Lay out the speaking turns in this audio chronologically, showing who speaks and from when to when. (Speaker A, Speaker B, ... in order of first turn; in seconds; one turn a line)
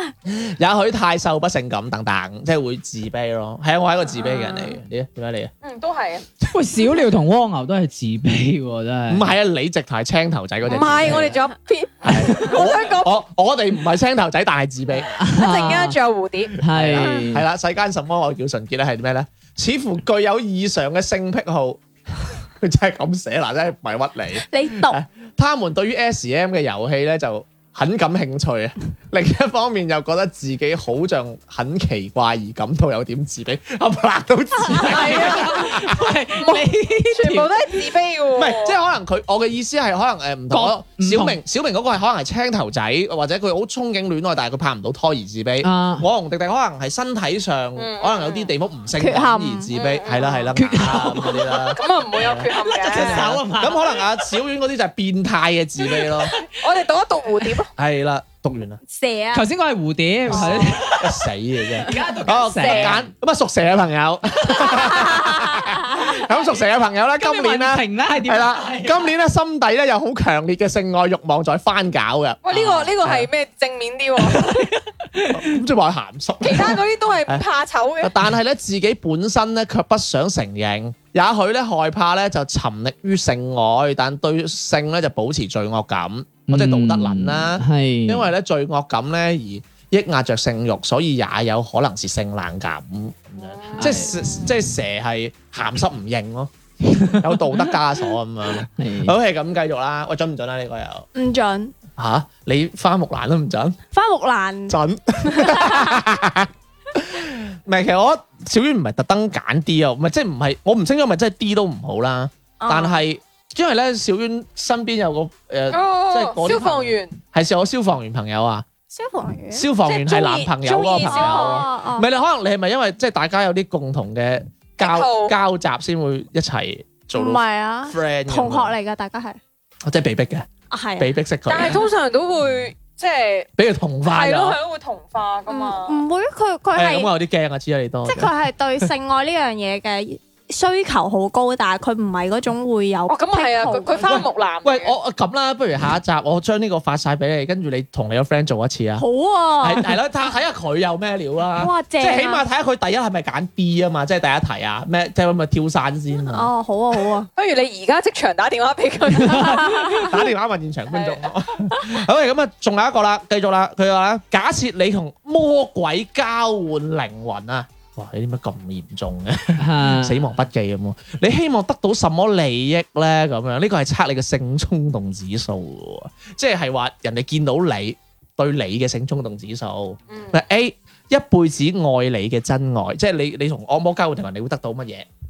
Speaker A: 0.3-5.5
Speaker B: 5.6-6.3
Speaker C: 6.5-9.3
Speaker A: 9.1-11.4
Speaker B: 10.7-13.1
Speaker C: 11.0-11.3
Speaker A: 12.0-15.1
Speaker C: 15.2-16.0
Speaker B: 15.2-16.6
Speaker C: 16.6-17.4
Speaker A: 16.7-36.1
Speaker D: 24.5-25.0
Speaker C: 34.8-37.5
Speaker B: 34.9-35.7
Speaker B: 36.4-38.8
Speaker A: 38.3-56.4
Speaker C: 40.5-41.4
Speaker C: 45.6-46.1
Speaker B: 47.8-48.5
Speaker D: 49.0-49.7
Speaker B: 49.7-50.5
Speaker C: 50.6-51.6
Speaker B: 51.7-53.3
Speaker C: 52.5-54.0
Speaker B: 56.2-57.7
Speaker A: 57.8-58.8
Speaker D: 58.9-59.5
Speaker C: 59.3-61.2
Speaker A: 60.3-73.3
Speaker C: 61.8-63.1
Speaker D: 64.9-66.1
Speaker C: 67.2-69.1
Speaker B: 72.4-74.5
Speaker C: 74.2-75.6
Speaker A: 75.3-77.4
Speaker B: 76.4-78.1
Speaker A: 78.0-101.1
Speaker C: 86.5-88.3
Speaker B: 93.4-94.5
Speaker C: 93.8-94.1
Speaker C: 96.9-97.5
Speaker C: 98.8-99.1
Speaker D: 101.1-101.7
Speaker A: 102.0-103.8
Speaker D: 103.9-106.0
Speaker A: 104.7-118.7
Speaker D: 112.6-113.0
Speaker B: 115.7-117.2
Speaker D: 118.9-119.7
Speaker A: 119.5-128.7
Speaker B: 119.8-121.7
Speaker D: 121.0-122.1
Speaker B: 124.8-125.3
Speaker D: 127.1-129.4
Speaker A: 129.8-131.9
Speaker D: 130.7-131.1
Speaker B: 131.5-133.5
Speaker A: 133.6-134.6
Speaker B: 134.1-136.0
Speaker D: 135.5-137.1
Speaker A: 136.7-138.9
Speaker D: 138.1-144.2
Speaker B: 143.1-144.9
Speaker A: 144.0-149.0
Speaker D: 149.0-149.9
Speaker A: 149.6-156.5
Speaker D: 151.6-152.4
Speaker D: 156.3-157.3
Speaker B: 157.4-160.1
Speaker D: 159.3-160.1
Speaker A: 160.0-185.1
Speaker B: 160.9-161.2
Speaker C: 169.6-170.2
Speaker B: 180.1-180.4